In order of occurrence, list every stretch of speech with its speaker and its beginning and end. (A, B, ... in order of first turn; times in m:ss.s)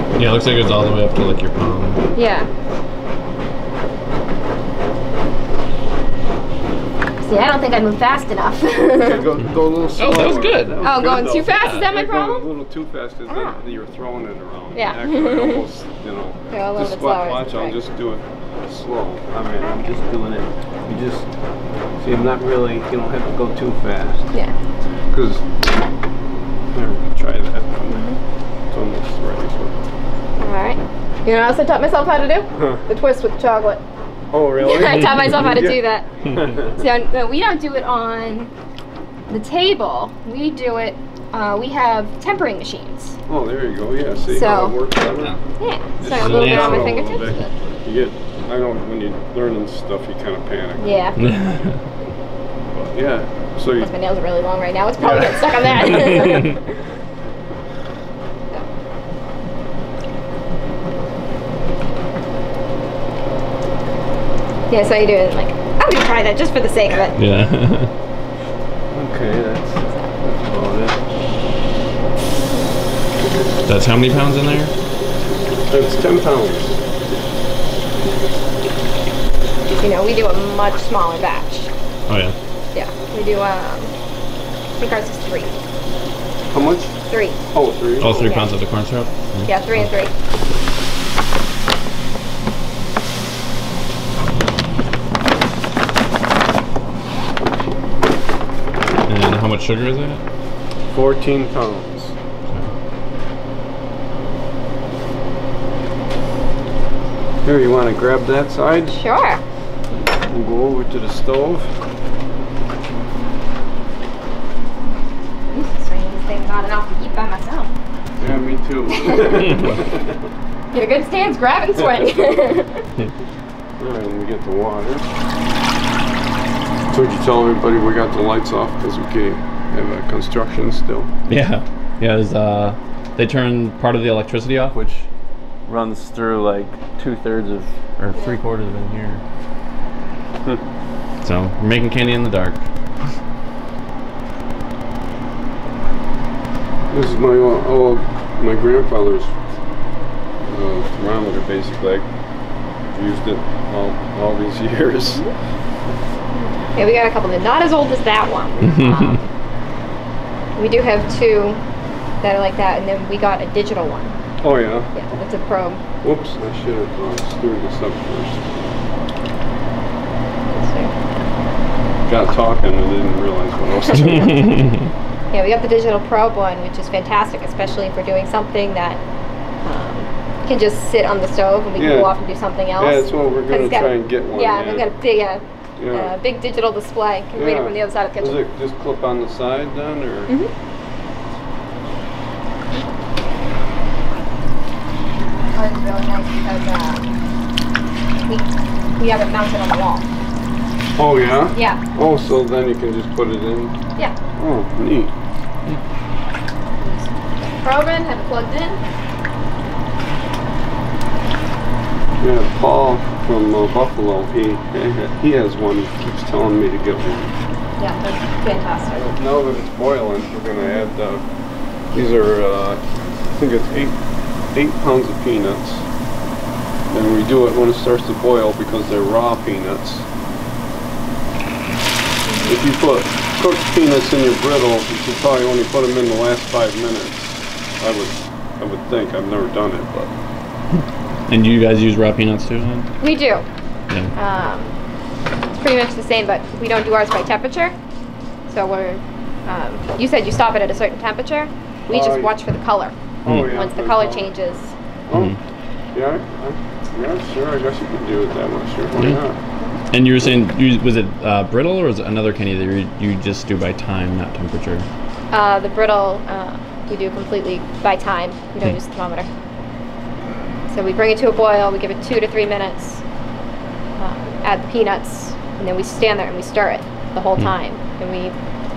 0:00.1-0:02.0 A
0:02.1-0:02.5 B
0:07.2-0:09.2 B
0:09.0-0:21.2 C
0:10.0-0:11.8 A
0:10.8-0:12.5 B
0:13.3-0:13.6 B
0:14.7-0:15.6 B
0:16.5-0:17.8 B
0:22.0-0:24.3 C
0:25.1-0:25.4 C
0:26.7-0:28.0 C
0:27.9-0:28.2 B
0:28.7-0:29.8 C
0:30.4-0:33.8 B
0:32.5-0:32.8 C
0:34.3-0:36.8 C
0:34.6-0:36.1 B
0:34.8-0:35.2 A
0:36.7-0:38.5 B
0:39.3-0:43.2 B
0:43.3-0:45.4 C
0:44.3-0:44.8 B
0:45.6-0:47.5 B
0:46.0-0:51.1 C
0:46.1-0:47.2 A
0:50.8-0:51.2 B
0:51.2-0:51.8 A
0:52.8-0:53.9 C
0:53.8-0:56.6 B
1:04.7-1:07.2 B
1:07.2-1:07.9 A
1:08.9-1:11.0 C
1:13.6-1:14.7 A
1:15.7-1:16.8 C
1:19.8-1:21.7 B
1:22.1-1:22.3 A
1:22.7-1:23.9 B
1:24.8-1:25.5 B
1:26.5-1:27.0 C
1:27.1-1:27.4 B
1:27.5-1:28.3 C
1:28.0-1:29.9 A
1:28.0-1:28.5 B
1:29.4-1:30.1 B
1:39.0-1:40.2 A
1:40.9-1:42.1 C
1:47.4-1:49.0 C
1:48.9-1:49.4 B
1:50.2-1:51.7 C
1:55.5-1:57.7 B
1:58.2-2:00.2 C
1:58.9-1:59.6 B
2:00.7-2:02.9 B
2:03.8-2:05.1 C
2:06.9-2:11.1 C
2:11.3-2:15.0 A
2:15.7-2:19.2 A
2:21.2-2:22.6 A
2:26.9-2:29.3 C
2:30.4-2:32.1 C
2:32.9-2:35.2 C
2:36.3-2:39.3 B
2:40.6-2:41.6 B
2:42.2-2:44.2 B
2:44.4-2:45.0 C
2:44.9-2:45.8 B
2:46.0-2:48.7 C
2:50.5-2:51.2 B
2:52.0-2:54.6 C
2:54.3-2:54.8 A
2:55.3-2:59.0 B
2:59.6-3:08.5 B
3:01.8-3:02.1 C
3:02.8-3:04.9 C
3:05.8-3:06.1 C
3:07.3-3:10.3 C
3:15.5-3:17.1 B
3:18.3-3:20.0 B
3:21.0-3:23.7 C
3:21.5-3:21.8 B
3:24.4-3:25.1 C
3:26.8-3:28.8 B
3:32.2-3:37.3 C
3:37.8-3:39.1 B
3:39.0-3:41.2 C
3:41.9-3:45.8 C
3:46.9-3:50.0 C
3:52.3-3:52.6 B
3:52.4-4:00.1 C
4:01.3-4:02.9 A
4:03.0-4:03.4 B
4:04.1-4:04.8 B
4:05.6-4:07.8 B
4:08.5-4:14.7 B
4:11.9-4:12.3 C
4:13.2-4:14.3 C
4:13.2-4:13.5 A
4:15.1-4:15.4 C
4:15.9-4:19.4 C
4:19.9-4:24.9 A
4:25.3-4:29.3 B
4:30.7-4:33.0 B
4:34.0-4:38.3 B